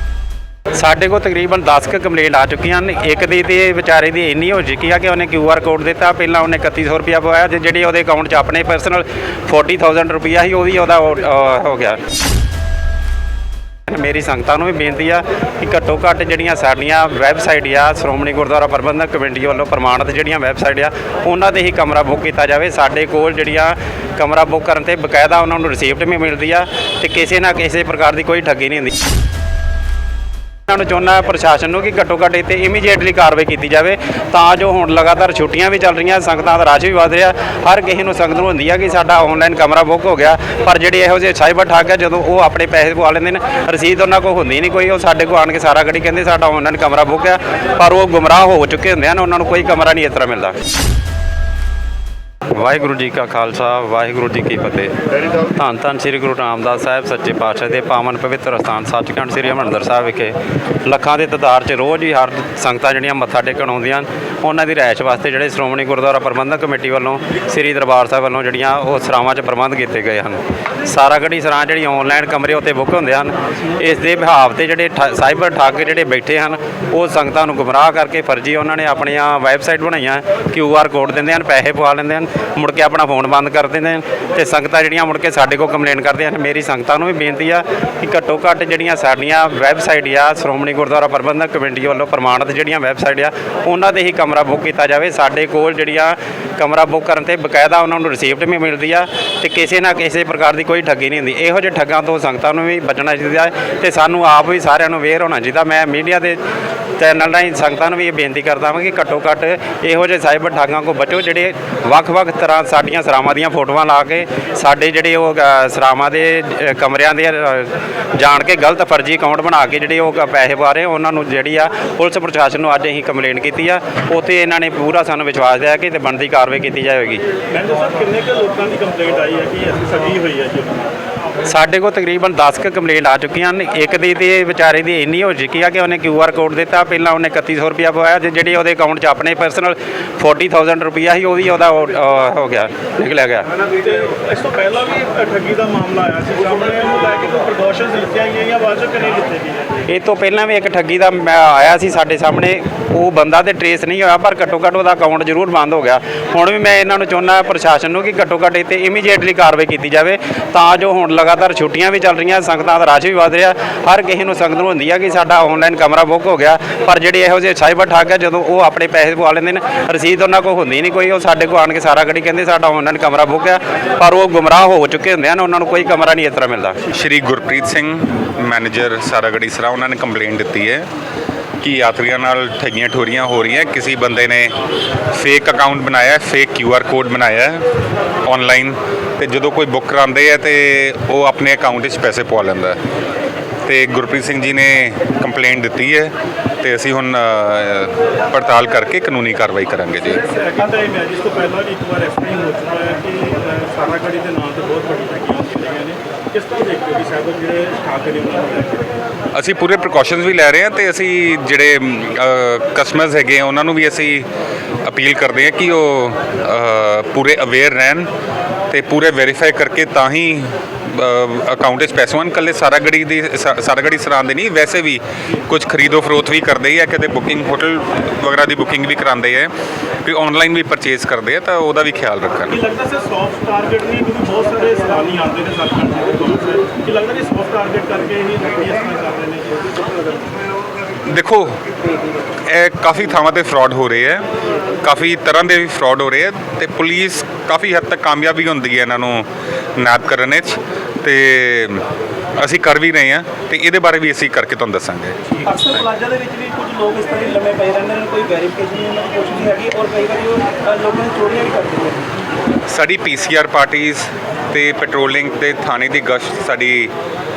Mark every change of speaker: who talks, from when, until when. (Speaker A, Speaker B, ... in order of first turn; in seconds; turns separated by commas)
Speaker A: 0.7-12.0, Speaker A: 13.9-28.9, Speaker A: 30.7-50.6, Speaker A: 52.5-106.4, Speaker A: 107.0-127.2, Speaker B: 127.5-130.9, Speaker A: 131.4-143.5, Speaker B: 143.7-149.8, Speaker A: 149.8-176.8, Speaker C: 176.9-180.9, Speaker C: 181.6-184.5, Speaker C: 185.1-187.6, Speaker C: 188.2-192.8, Speaker C: 193.7-200.2, Speaker B: 200.2-208.8, Speaker C: 209.3-214.3, Speaker C: 214.8-218.1, Speaker C: 218.7-229.5, Speaker C: 230.0-232.6, Speaker B: 232.5-239.8, Speaker C: 241.0-241.6, Speaker C: 242.4-244.2, Speaker C: 244.8-251.8, Speaker C: 252.4-255.4, Speaker D: 255.4-262.1, Speaker C: 262.7-266.9